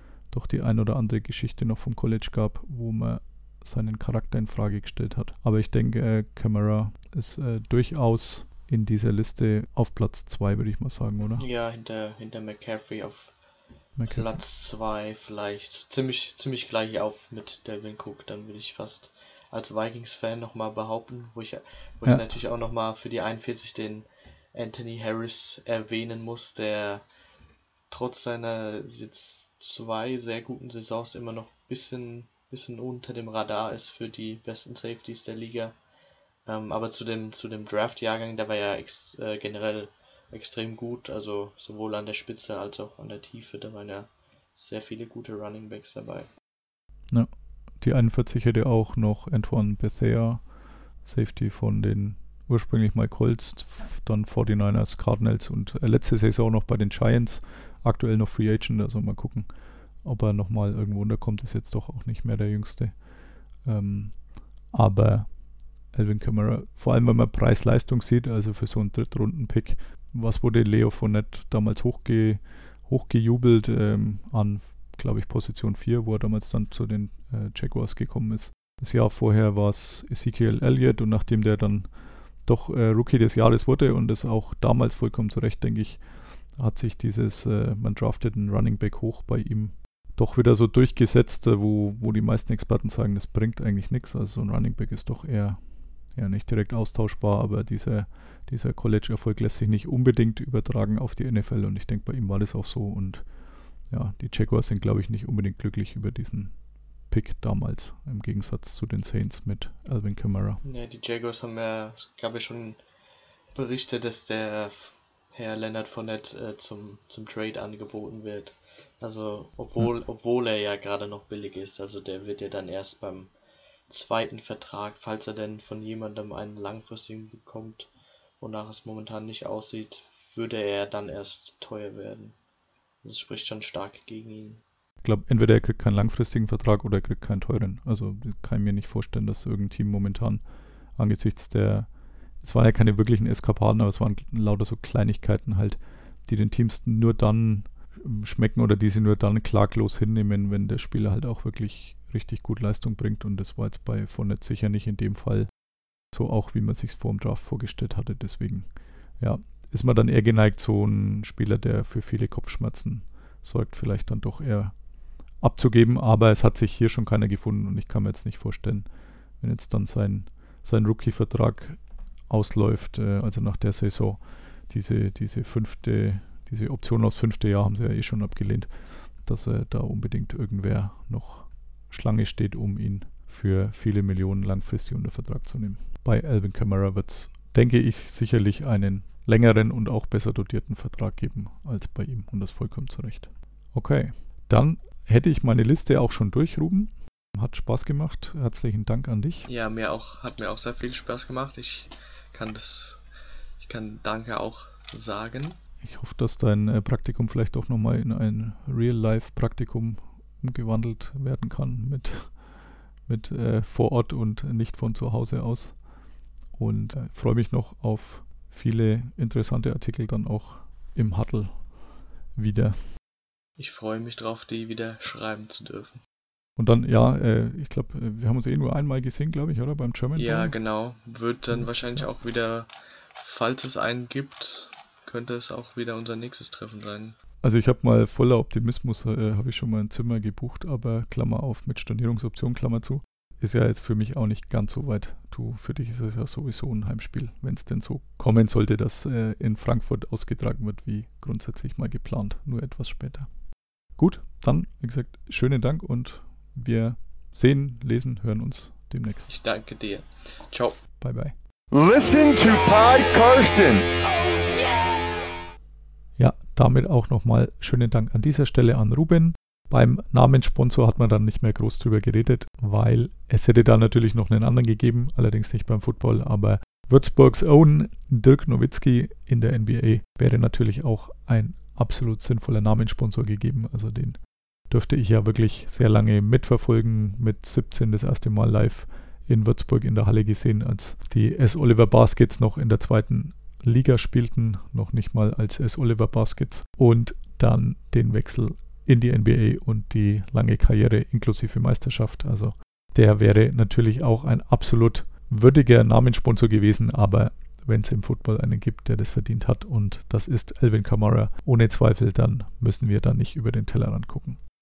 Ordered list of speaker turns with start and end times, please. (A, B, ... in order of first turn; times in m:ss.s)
0:00.3-0:11.4 A
0:11.4-0:13.3 B
0:14.0-0:14.4 A
0:14.1-0:27.0 B
0:27.9-0:35.7 B
0:36.5-0:46.3 B
0:47.1-0:50.5 A
0:51.0-0:59.5 A
1:00.0-1:03.0 A
1:03.6-1:05.4 A
1:05.9-1:21.9 A
1:22.4-1:35.6 A
1:36.1-1:43.3 A
1:43.9-1:46.6 A
1:47.1-1:50.6 A
1:50.6-1:52.8 B
1:53.5-2:03.3 B
2:03.9-2:07.9 B
2:08.4-2:12.4 B
2:13.0-2:14.6 B
2:15.0-2:20.4 A
2:21.0-2:21.9 A
2:22.4-2:35.5 A
2:36.1-2:44.8 A
2:45.4-2:48.9 A
2:49.4-2:58.7 A
2:59.2-3:19.5 A
3:19.5-3:23.0 B
3:23.6-3:25.6 B
3:25.8-3:32.4 A
3:33.1-3:35.8 A
3:36.5-3:41.7 A
3:42.4-3:42.8 A
3:43.6-3:46.0 B
3:46.6-3:50.6 A
3:50.2-3:57.2 B
3:51.5-3:52.1 A
3:57.4-4:13.3 A
4:14.0-4:19.3 A
4:19.3-4:20.8 B
4:21.0-4:21.4 A
4:21.7-4:23.9 C
4:26.2-5:14.4 A